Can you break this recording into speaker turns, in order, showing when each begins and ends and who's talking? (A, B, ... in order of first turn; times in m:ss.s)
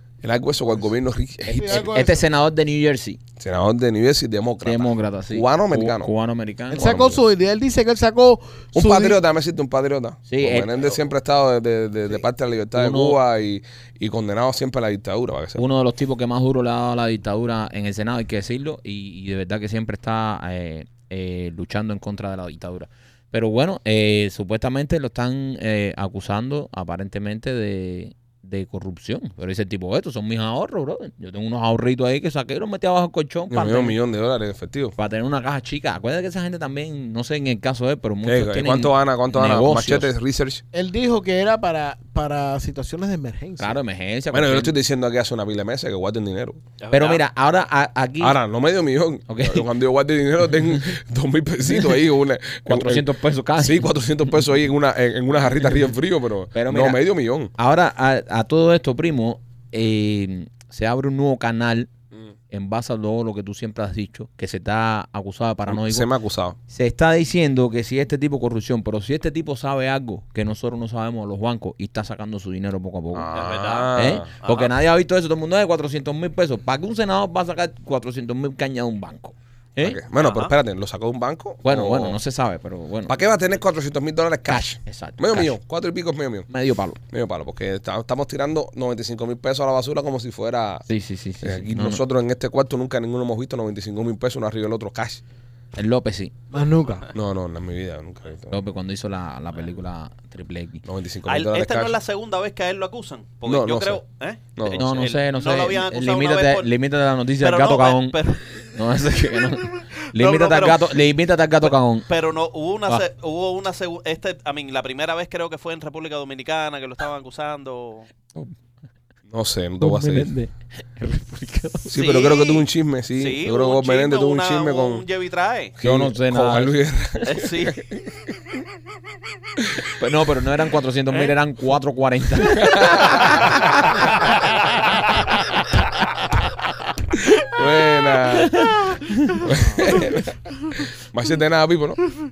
0:00.2-0:01.8 A
0:01.5-0:03.2 B
0:01.5-0:02.2 C
0:03.4-0:06.1 A
0:04.6-0:07.1 B
0:06.7-0:09.2 C
0:06.8-0:07.1 A
0:08.7-0:15.6 A
0:10.3-0:10.7 B
0:12.7-0:13.2 B
0:15.6-0:33.9 B
0:33.5-0:34.9 A
0:35.0-0:40.1 B
0:38.2-0:40.6 A
0:40.7-0:43.8 C
0:43.6-0:44.7 B
0:44.3-0:46.6 A
0:46.8-0:47.2 D
0:46.9-0:48.4 B
0:48.2-0:53.0 A
0:49.3-0:49.7 B
0:52.6-0:53.9 B
0:53.6-0:57.5 A
0:56.5-0:57.0 B
0:57.6-1:01.9 B
1:02.5-1:06.1 B
1:05.7-1:06.6 A
1:06.7-1:13.3 B
1:13.1-1:14.3 A
1:13.3-1:14.7 D
1:13.9-1:20.0 B
1:19.8-1:22.2 A
1:20.2-1:20.5 D
1:21.6-1:23.1 B
1:23.1-1:26.5 A
1:24.5-1:25.5 B
1:26.5-1:27.0 B
1:27.1-1:30.8 A
1:30.9-1:32.0 B
1:31.4-1:35.2 A
1:35.7-1:36.3 B
1:36.5-1:37.1 C
1:37.1-1:38.6 A
1:38.5-1:40.8 B
1:40.8-1:42.0 A
1:41.3-1:46.7 D
1:43.4-1:44.0 A
1:44.6-1:44.8 A
1:44.8-1:52.1 B
1:47.4-1:48.5 D
1:50.1-1:51.0 D
1:51.6-1:58.1 D
1:59.3-2:00.3 A
1:59.8-2:01.9 B
2:01.8-2:05.0 A
2:01.9-2:02.6 D
2:03.2-2:05.8 D
2:05.8-2:08.0 A
2:05.8-2:06.7 B
2:07.2-2:07.8 D
2:10.0-2:13.6 B
2:12.5-2:13.6 A
2:17.4-2:18.6 A
2:18.5-2:19.4 B
2:19.4-2:22.0 A